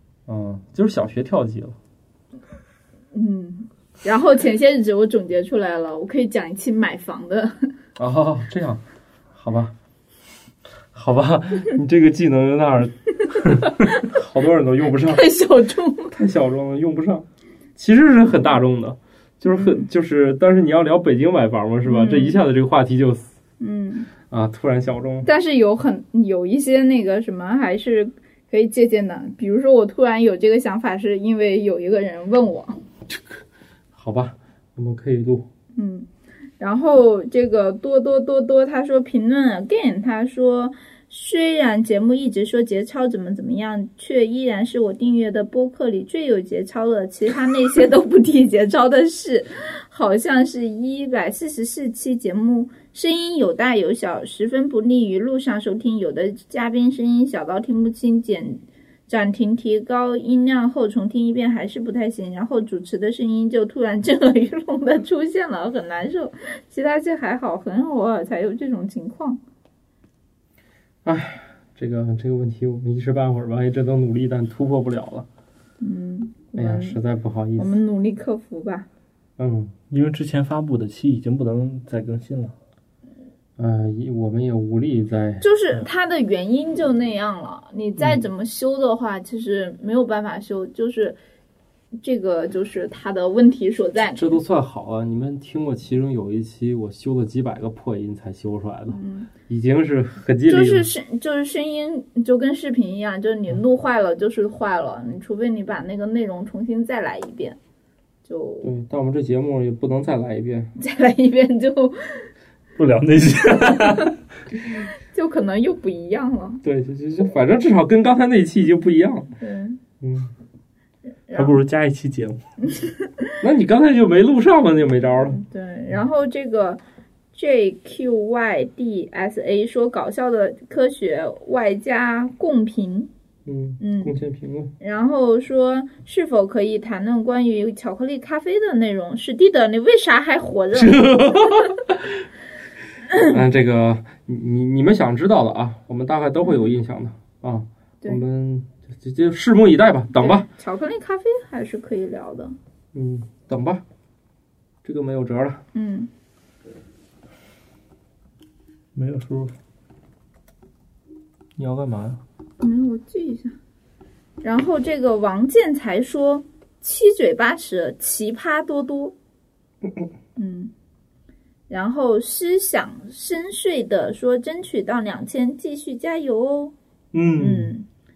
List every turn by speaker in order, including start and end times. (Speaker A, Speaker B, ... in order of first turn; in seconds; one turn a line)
Speaker A: 0.3-1.8
Speaker B: 3.1-7.7
Speaker A: 8.0-9.7
Speaker A: 10.9-15.2
Speaker B: 13.6-14.0
Speaker B: 15.0-16.1
Speaker A: 16.1-23.3
Speaker B: 19.5-19.9
Speaker B: 21.8-22.4
Speaker B: 23.6-24.1
Speaker A: 24.3-25.3
Speaker B: 25.2-32.8
Speaker A: 33.9-35.5
Speaker B: 35.8-36.1
Speaker B: 36.6-69.4
Speaker A: 71.0-75.3
Speaker B: 75.8-77.0
Speaker A: 76.5-77.8
Speaker B: 77.6-78.8
Speaker A: 79.4-79.7
Speaker C: 79.9-82.5
Speaker A: 83.6-85.4
Speaker B: 85.4-91.2
Speaker B: 92.0-94.3
Speaker A: 94.1-100.9
Speaker B: 98.9-99.3
Speaker B: 100.5-107.6
Speaker B: 108.2-108.7
Speaker A: 108.6-110.7
Speaker B: 110.8-112.3
Speaker C: 112.8-114.2
Speaker B: 113.7-114.0
Speaker B: 115.1-116.6
Speaker A: 116.6-119.3
Speaker B: 119.4-119.8
Speaker A: 120.0-120.3
Speaker B: 121.3-121.6
Speaker C: 121.3-122.4
Speaker B: 122.7-123.4
Speaker A: 123.4-125.4
Speaker B: 125.2-126.8
Speaker B: 127.3-133.1
Speaker A: 133.4-134.7
Speaker B: 133.8-134.1
Speaker B: 134.8-141.7
Speaker A: 140.7-142.2
Speaker A: 143.2-150.5
Speaker B: 150.2-152.5
Speaker A: 152.9-153.8
Speaker A: 154.8-155.6
Speaker B: 155.7-156.1
Speaker C: 158.9-159.5
Speaker A: 161.6-162.2
Speaker B: 162.6-163.5
Speaker B: 164.4-169.1
Speaker B: 170.3-170.7
Speaker B: 171.7-176.7
Speaker A: 177.1-177.4
Speaker B: 177.4-177.8